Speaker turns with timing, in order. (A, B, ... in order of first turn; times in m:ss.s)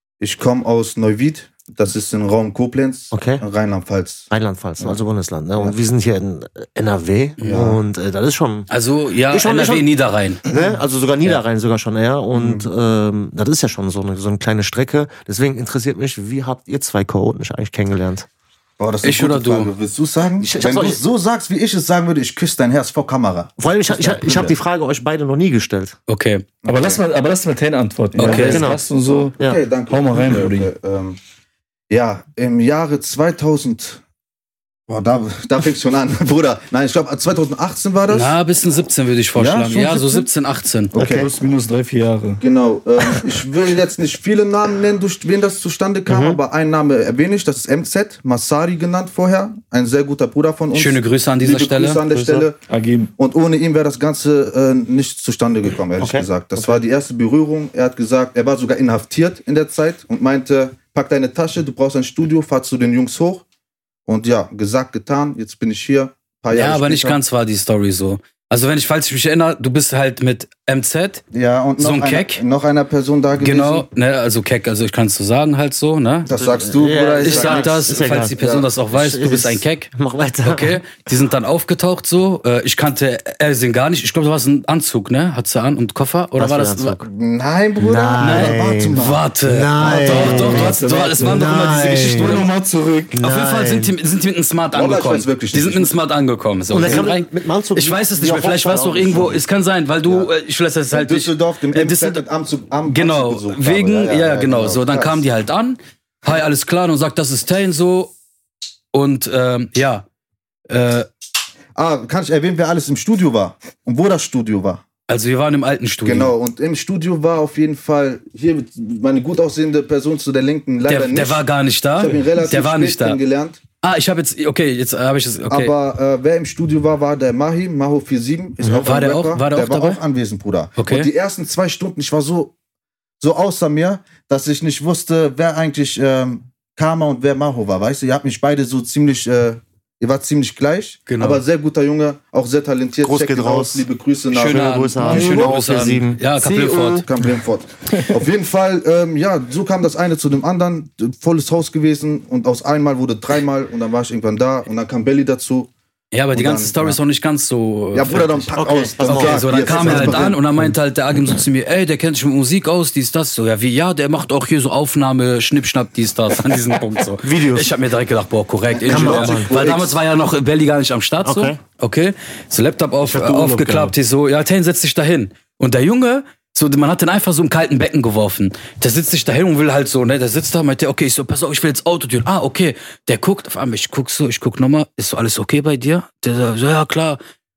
0:00.2-0:05.0 A
0:03.1-0:03.4 B
0:04.3-0:08.7 B
0:07.4-0:07.6 C
0:07.4-0:07.8 A
0:08.7-0:10.4 C
0:09.3-0:09.9 B
0:10.4-0:18.3 B
0:12.3-0:12.7 A
0:18.8-0:24.6 A
0:19.0-0:19.7 C
0:20.4-0:21.0 B
0:23.6-0:26.0 B
0:26.1-0:26.4 C
0:26.6-0:27.0 A
0:26.7-0:30.7 D
0:28.1-0:28.7 A
0:28.2-0:28.6 C
0:28.2-0:28.8 B
0:29.4-0:31.2 A
0:31.9-0:34.0 A
0:34.9-0:38.3 A
0:38.1-0:40.9 C
0:39.4-0:40.3 A
0:40.9-0:41.3 A
0:40.9-0:41.3 B
0:41.0-0:42.4 D
0:42.4-0:52.6 A
0:46.1-0:46.4 B
0:50.7-0:52.0 C
0:52.1-0:52.5 B
0:52.7-0:53.1 D
0:53.2-1:03.4 A
0:56.0-0:56.8 B
1:04.1-1:07.2 A
1:06.5-1:11.2 C
1:11.3-1:13.8 A
1:11.8-1:12.4 C
1:13.4-1:16.3 C
1:16.2-1:18.7 A
1:16.3-1:18.4 B
1:16.9-1:19.9 C
1:18.9-1:20.8 B
1:20.4-1:27.0 C
1:26.4-1:27.0 B
1:27.1-1:29.2 A
1:27.8-1:32.5 B
1:28.2-1:32.5 C
1:29.8-1:30.5 A
1:29.9-1:33.1 D
1:33.1-1:33.9 B
1:33.2-1:42.2 C
1:34.7-1:36.0 A
1:36.7-1:39.4 B
1:36.7-1:37.1 A
1:40.0-1:40.3 A
1:40.9-1:45.2 A
1:42.9-1:48.1 C
1:48.9-1:50.0 C
1:50.7-1:51.1 C
1:51.7-1:54.8 A
1:55.1-1:56.3 C
1:56.0-2:01.4 A
2:00.8-2:03.2 C
2:02.0-2:03.6 A
2:03.8-2:05.7 C
2:05.5-2:12.5 A
2:08.6-2:09.0 B
2:08.8-2:10.0 C
2:10.8-2:11.1 C
2:13.2-2:25.6 A
2:21.1-2:21.4 C
2:23.0-2:26.2 B
2:24.4-2:27.1 C
2:26.4-2:35.7 A
2:36.1-3:07.2 C
2:36.3-2:37.0 A
2:37.9-2:40.4 A
2:38.5-2:40.7 B
2:47.2-2:47.7 B
2:48.7-2:50.0 A
2:48.8-2:49.6 B
2:51.2-2:51.6 B
2:53.1-2:53.9 D